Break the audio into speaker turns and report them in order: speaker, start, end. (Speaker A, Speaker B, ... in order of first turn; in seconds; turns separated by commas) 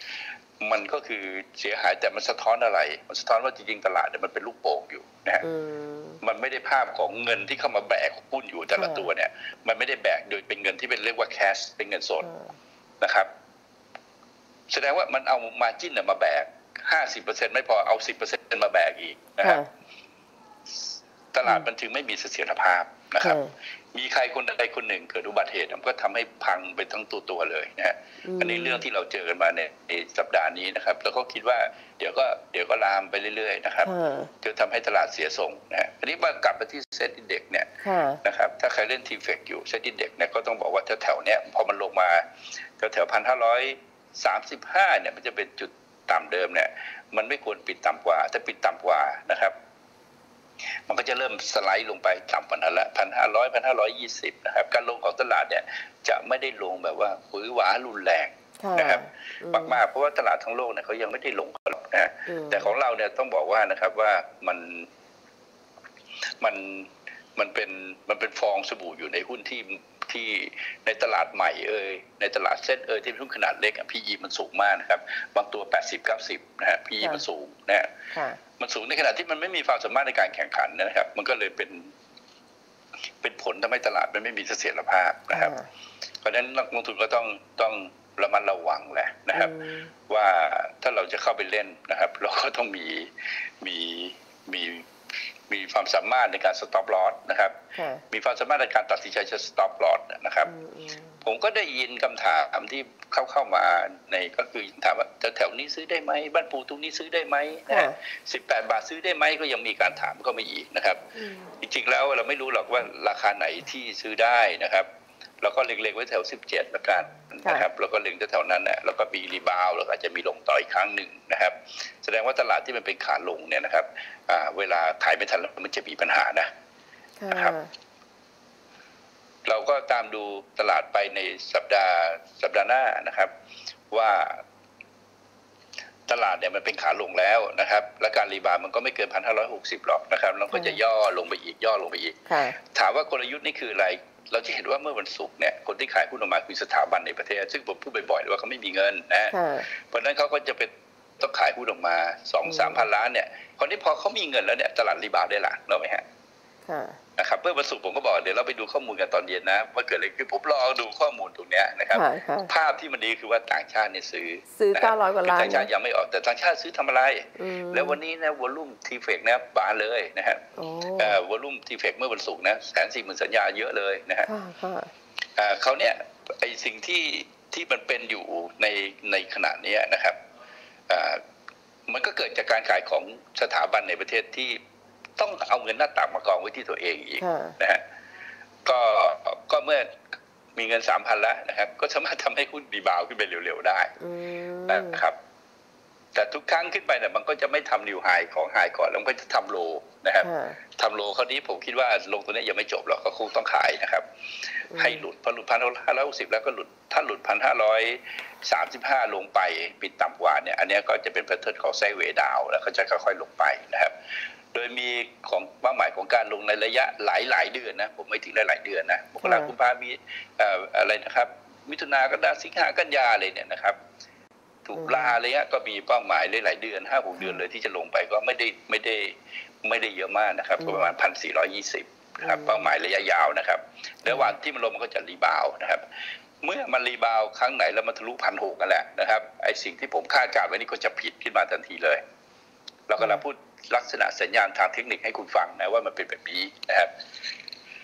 Speaker A: 0.6-5.5, Speaker B: 5.4-6.2, Speaker A: 6.2-12.3, Speaker B: 8.8-9.1, Speaker B: 12.2-12.5, Speaker A: 13.0-13.3, Speaker A: 14.7-19.6, Speaker B: 19.4-19.7, Speaker A: 21.3-23.4, Speaker B: 23.2-23.5, Speaker A: 23.9-33.9, Speaker B: 28.2-28.8, Speaker B: 33.8-34.3, Speaker A: 34.4-37.7, Speaker B: 37.8-38.2, Speaker A: 38.2-42.2, Speaker A: 42.8-49.5, Speaker A: 50.9-64.9, Speaker B: 58.6-59.8, Speaker B: 62.3-62.7, Speaker A: 66.4-77.9, Speaker B: 78.1-78.4, Speaker A: 78.6-81.9, Speaker A: 83.2-85.5, Speaker B: 85.3-85.7, Speaker A: 86.2-89.5, Speaker B: 89.3-89.9, Speaker A: 90.1-94.8, Speaker A: 95.5-97.6, Speaker B: 97.7-98.0, Speaker A: 98.1-100.5, Speaker B: 100.5-101.2, Speaker A: 101.2-114.9, Speaker B: 107.7-108.0, Speaker A: 115.4-126.5, Speaker B: 127.2-127.7, Speaker A: 129.4-133.3, Speaker A: 133.9-134.4, Speaker A: 136.1-142.2, Speaker B: 140.5-140.8, Speaker B: 142.3-142.6, Speaker A: 142.7-156.0, Speaker B: 149.3-149.7, Speaker B: 152.4-152.8, Speaker B: 156.7-157.0, Speaker A: 157.2-170.4, Speaker B: 161.9-162.5, Speaker B: 164.5-165.7, Speaker B: 167.4-168.0, Speaker B: 170.6-171.2, Speaker A: 171.0-174.3, Speaker B: 174.2-174.9, Speaker A: 175.4-180.2, Speaker A: 180.9-181.2, Speaker A: 181.9-184.6, Speaker A: 185.2-187.8, Speaker B: 187.2-187.6, Speaker A: 188.6-189.9, Speaker A: 190.6-193.9, Speaker B: 194.0-195.0, Speaker A: 194.7-195.2, Speaker A: 196.1-204.0, Speaker B: 200.2-200.6, Speaker A: 204.7-213.9, Speaker B: 204.7-205.0, Speaker A: 214.5-223.8, Speaker B: 219.2-219.5, Speaker A: 224.7-235.8, Speaker B: 224.8-225.1, Speaker B: 230.6-230.9, Speaker B: 232.2-232.7, Speaker B: 234.1-234.3, Speaker A: 236.4-242.0, Speaker A: 242.9-246.9